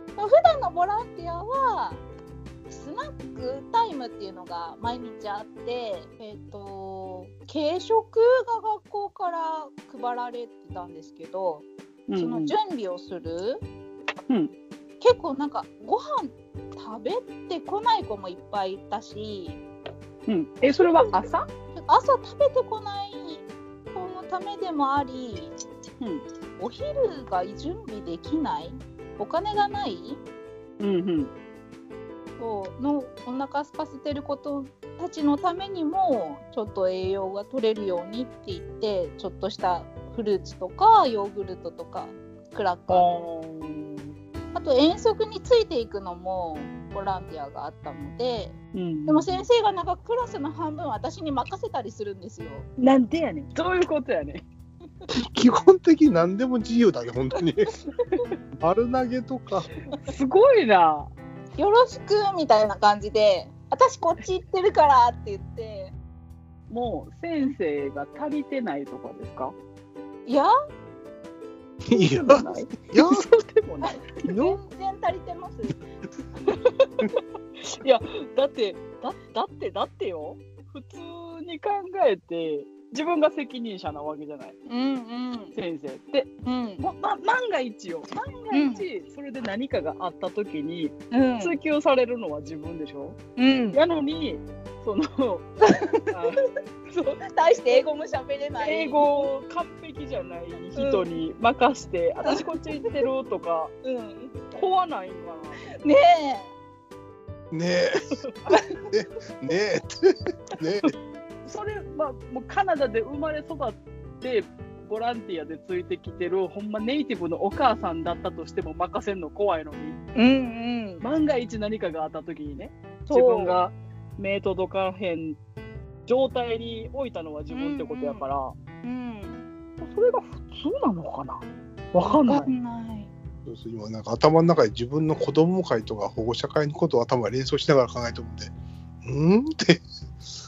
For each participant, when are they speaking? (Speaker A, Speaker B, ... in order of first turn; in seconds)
Speaker A: 0.2-2.0, 2.7-13.6, 15.0-19.6, 20.7-25.5, 26.6-30.2, 32.4-43.2, 44.5-48.5, 49.1-52.6, 61.6-65.9, 73.8-75.8, 84.7-85.5, 86.4-86.8, 88.5-88.9, 91.1-91.6, 93.4-93.8, 95.6-96.1, 97.0-99.3, 100.8-101.1, 103.8-104.3, 105.7-106.5, 120.1-121.0, 123.1-123.6, 127.5-128.2, 128.8-129.4, 132.0-133.1
Speaker B: 12.1-12.5, 14.3-14.5, 20.3-21.4, 30.8-31.3, 42.9-44.1, 48.7-49.4, 52.8-54.4, 60.0-61.1, 66.7-69.5, 71.9-74.1, 77.6-84.5, 85.5-93.2, 93.7-95.5, 96.1-96.4, 98.6-103.7, 104.5-105.7, 111.4-120.0, 121.0-125.4, 126.1-128.5, 129.8-132.5
Speaker C: 55.1-57.7, 58.6-59.7, 71.9-73.2, 74.3-74.6, 107.5-108.2, 108.9-110.9, 133.4-138.5, 139.0-139.8